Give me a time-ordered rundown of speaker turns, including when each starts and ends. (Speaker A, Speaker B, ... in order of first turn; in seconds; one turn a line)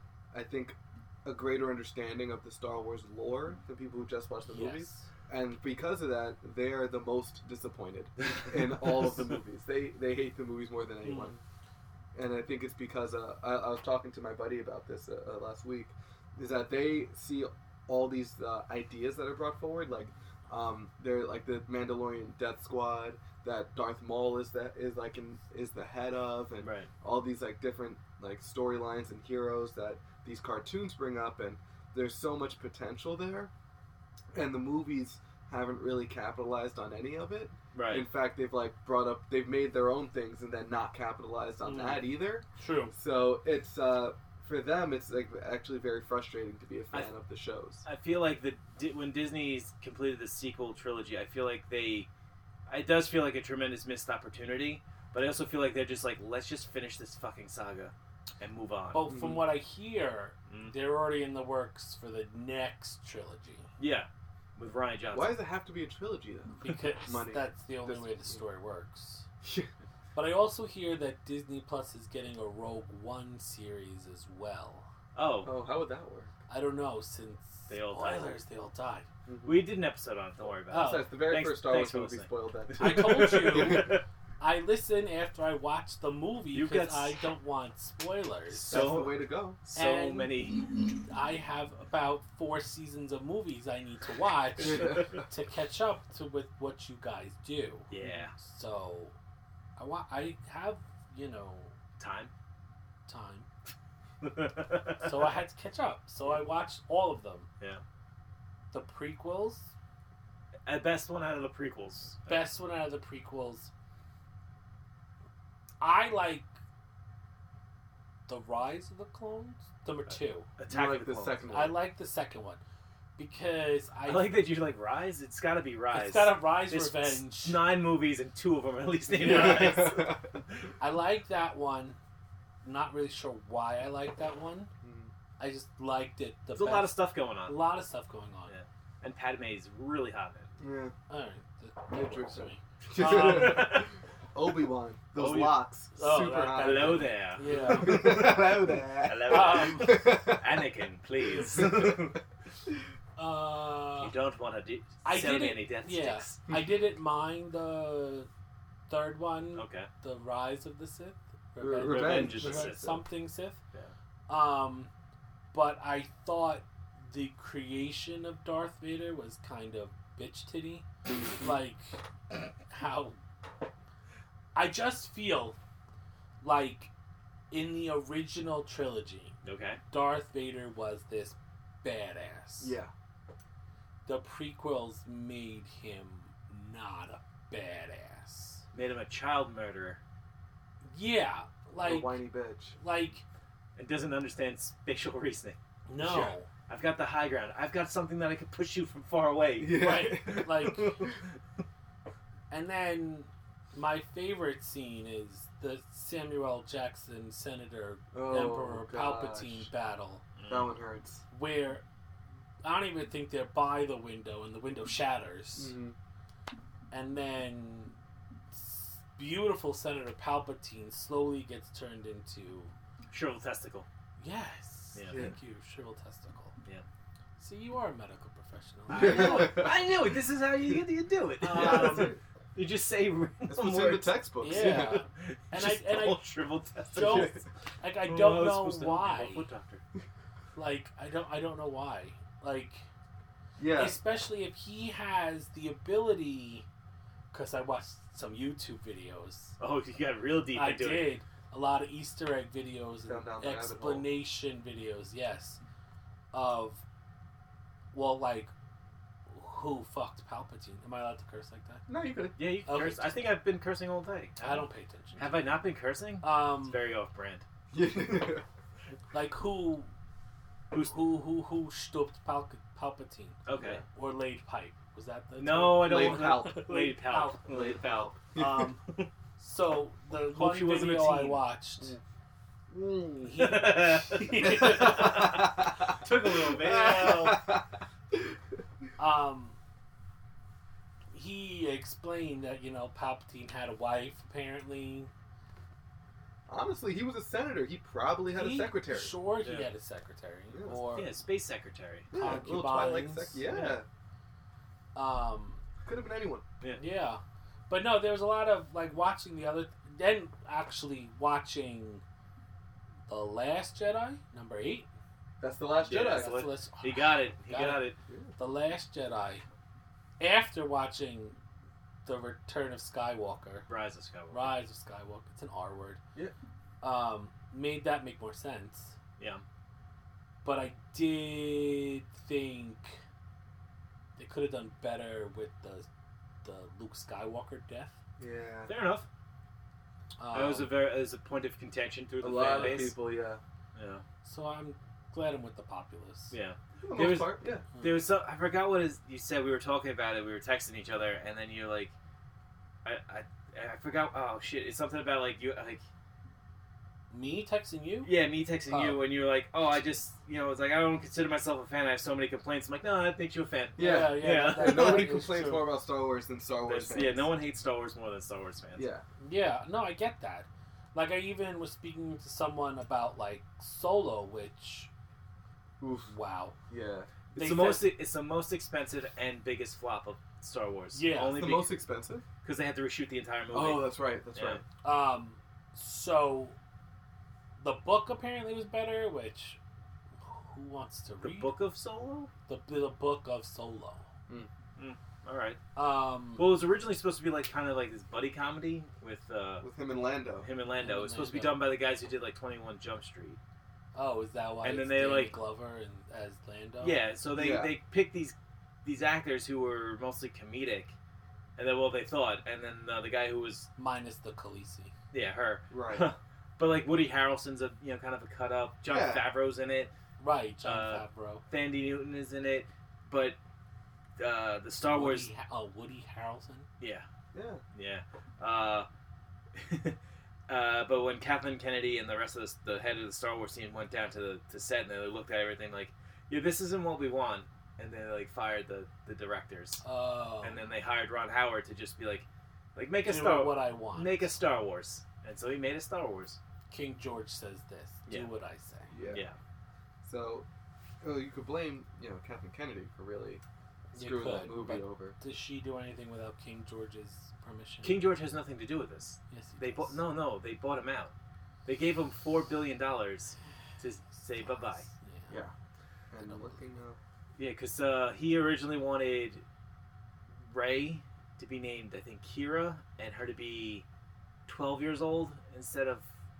Speaker A: 0.3-11.4
Speaker B: 4.5-5.1
Speaker B: 11.0-11.3
Speaker A: 12.1-33.5
Speaker C: 26.6-26.9
Speaker A: 34.3-47.8
Speaker C: 37.7-38.0
Speaker B: 41.6-42.0
Speaker B: 42.5-42.9
Speaker C: 47.8-52.1
Speaker C: 52.7-59.1
Speaker B: 58.9-63.7
Speaker A: 59.0-59.4
Speaker C: 60.5-60.7
Speaker C: 63.8-65.3
Speaker A: 65.1-68.4
Speaker B: 66.6-69.2
Speaker A: 69.4-69.7
Speaker B: 70.1-74.9
Speaker C: 75.1-75.5
Speaker A: 75.4-76.3
Speaker B: 76.5-79.1
Speaker C: 77.7-78.4
Speaker A: 79.2-79.6
Speaker C: 79.4-84.0
Speaker B: 80.7-81.1
Speaker A: 80.7-84.0
Speaker B: 82.8-88.9
Speaker C: 86.5-87.2
Speaker C: 88.5-90.6
Speaker A: 88.7-89.6
Speaker B: 89.7-90.3
Speaker B: 90.9-99.1
Speaker A: 94.6-95.2
Speaker C: 97.9-98.3
Speaker B: 99.8-101.7
Speaker C: 102.0-102.3
Speaker B: 103.1-103.5
Speaker C: 104.2-105.1
Speaker B: 105.0-107.5
Speaker B: 108.7-109.7
Speaker C: 110.7-112.4
Speaker B: 112.2-113.7
Speaker B: 115.8-116.5
Speaker B: 118.3-120.5
Speaker C: 120.6-121.4
Speaker A: 120.7-121.8
Speaker B: 121.5-122.6
Speaker B: 123.2-124.3
Speaker C: 124.0-130.6
Speaker B: 125.9-127.6
Speaker A: 129.1-130.4
Speaker B: 129.1-129.9
Speaker B: 130.8-132.0
Speaker B: 132.6-134.7
Speaker A: 134.8-135.1
Speaker B: 135.4-138.5
Speaker C: 136.5-137.6
Speaker C: 138.5-140.5
Speaker A: 140.6-140.9
Speaker B: 141.1-143.8
Speaker A: 141.9-150.6
Speaker C: 143.0-143.9
Speaker C: 145.1-145.6
Speaker B: 145.9-148.3
Speaker C: 146.6-152.2
Speaker B: 149.2-150.2
Speaker A: 151.3-152.1
Speaker B: 153.2-154.1
Speaker C: 154.0-156.4
Speaker B: 155.0-158.3
Speaker B: 158.9-163.6
Speaker C: 159.5-159.9
Speaker A: 161.6-163.0
Speaker C: 161.8-162.9
Speaker B: 164.3-164.9
Speaker B: 165.5-172.0
Speaker B: 172.6-173.2
Speaker B: 174.5-175.6
Speaker B: 176.4-176.9
Speaker B: 177.5-179.4
Speaker C: 179.4-179.8
Speaker B: 179.9-182.8
Speaker A: 182.6-182.9
Speaker B: 184.1-188.6
Speaker C: 188.7-190.0
Speaker B: 190.8-193.2
Speaker A: 191.8-192.8
Speaker C: 193.8-195.6
Speaker B: 195.9-196.5
Speaker A: 196.0-196.3
Speaker C: 196.7-201.3
Speaker A: 199.6-201.1
Speaker B: 199.7-201.0
Speaker B: 202.5-210.2
Speaker A: 208.1-209.7
Speaker C: 210.4-210.7
Speaker A: 210.5-211.2
Speaker B: 211.3-211.8
Speaker B: 212.6-215.7
Speaker A: 215.6-215.9
Speaker B: 216.9-217.9
Speaker B: 218.5-222.7
Speaker C: 223.1-223.9
Speaker B: 224.2-226.6
Speaker A: 225.1-225.3
Speaker B: 227.4-229.7
Speaker C: 228.9-237.4
Speaker A: 228.9-229.7
Speaker B: 231.4-232.2
Speaker A: 231.5-232.2
Speaker A: 233.5-235.0
Speaker B: 234.4-236.2
Speaker B: 236.9-239.5
Speaker A: 236.9-237.4
Speaker C: 238.0-239.8
Speaker B: 240.6-242.9
Speaker A: 243.6-244.0
Speaker B: 243.7-246.7
Speaker B: 247.3-249.6
Speaker C: 249.6-251.1
Speaker B: 250.5-255.6
Speaker A: 253.1-254.1
Speaker B: 256.3-256.8
Speaker B: 257.9-258.5
Speaker B: 259.3-261.8
Speaker A: 261.9-262.4
Speaker C: 262.4-264.6
Speaker B: 262.6-263.2
Speaker B: 264.4-265.4
Speaker C: 265.2-267.4
Speaker B: 266.2-266.8
Speaker A: 267.7-268.4
Speaker B: 269.1-269.9
Speaker B: 270.8-273.4
Speaker C: 273.5-273.8
Speaker A: 273.6-273.8
Speaker B: 273.9-277.8
Speaker C: 275.4-278.1
Speaker A: 275.8-276.6
Speaker A: 277.5-278.7
Speaker B: 278.3-278.8
Speaker B: 279.4-282.0
Speaker C: 280.3-281.4
Speaker A: 282.7-283.3
Speaker B: 283.2-285.4
Speaker C: 283.4-287.4
Speaker A: 284.4-288.3
Speaker B: 287.1-287.3
Speaker B: 289.0-289.6
Speaker B: 291.1-295.1
Speaker A: 296.5-299.1
Speaker B: 298.3-301.1
Speaker C: 299.4-299.7
Speaker A: 300.5-300.9
Speaker C: 300.9-302.1
Speaker A: 302.1-303.9
Speaker B: 302.1-303.4
Speaker C: 303.5-303.8
Speaker B: 304.9-305.6
Speaker A: 305.8-306.4
Speaker B: 306.8-312.0
Speaker B: 313.1-314.9
Speaker A: 315.4-316.3
Speaker C: 315.8-318.0
Speaker B: 316.1-319.4
Speaker B: 320.2-321.4
Speaker B: 322.0-323.6
Speaker C: 323.7-324.6
Speaker B: 324.3-326.0
Speaker B: 326.8-328.9
Speaker C: 329.2-329.4
Speaker B: 330.4-333.0
Speaker B: 334.2-335.9
Speaker B: 336.4-338.0
Speaker A: 338.2-338.7
Speaker C: 338.6-339.1
Speaker B: 340.2-340.7
Speaker C: 340.3-342.9
Speaker A: 342.2-343.4
Speaker B: 342.6-342.9
Speaker C: 343.7-344.0
Speaker B: 344.2-346.3
Speaker C: 346.3-351.9
Speaker A: 346.8-347.6
Speaker B: 347.7-348.0
Speaker C: 352.8-355.8
Speaker B: 357.1-358.1
Speaker C: 358.0-365.2
Speaker B: 358.7-359.0
Speaker A: 363.8-367.3
Speaker B: 363.8-365.7
Speaker C: 366.6-368.9
Speaker A: 368.8-369.0
Speaker B: 369.2-374.9
Speaker A: 375.8-376.1
Speaker B: 376.1-376.6
Speaker A: 376.7-377.1
Speaker B: 377.3-377.9
Speaker C: 377.3-381.7
Speaker B: 380.9-381.4
Speaker A: 381.3-382.2
Speaker C: 382.4-384.6
Speaker A: 383.5-384.6
Speaker B: 384.8-386.6
Speaker B: 387.6-389.6
Speaker B: 390.2-391.5
Speaker C: 391.2-392.3
Speaker B: 392.5-394.1
Speaker C: 394.8-395.6
Speaker B: 395.7-396.4
Speaker C: 396.4-399.6
Speaker A: 399.6-400.5
Speaker C: 400.4-403.4
Speaker B: 400.8-401.6
Speaker B: 403.9-407.0
Speaker C: 404.6-405.3
Speaker C: 406.8-410.9
Speaker A: 407.3-407.7
Speaker C: 411.6-413.7
Speaker B: 413.8-414.9
Speaker C: 415.1-419.9
Speaker A: 415.7-416.1
Speaker A: 418.9-419.3
Speaker B: 420.2-421.4
Speaker C: 420.6-423.4
Speaker C: 424.2-425.3
Speaker B: 424.8-426.7
Speaker C: 426.8-427.1
Speaker A: 427.3-427.6
Speaker C: 427.7-428.9
Speaker C: 429.5-430.0
Speaker C: 430.5-439.8
Speaker B: 439.8-440.7
Speaker C: 440.4-446.4
Speaker B: 443.1-444.3
Speaker B: 446.7-449.0
Speaker A: 448.9-449.2
Speaker C: 449.1-449.4
Speaker A: 450.0-450.4
Speaker A: 451.0-453.4
Speaker B: 453.9-458.0
Speaker A: 453.9-455.1
Speaker C: 457.8-461.1
Speaker B: 459.3-460.0
Speaker C: 461.6-464.9
Speaker B: 464.4-465.4
Speaker A: 466.1-467.0
Speaker B: 466.2-466.6
Speaker C: 467.4-469.4
Speaker C: 470.3-473.8
Speaker C: 474.4-476.1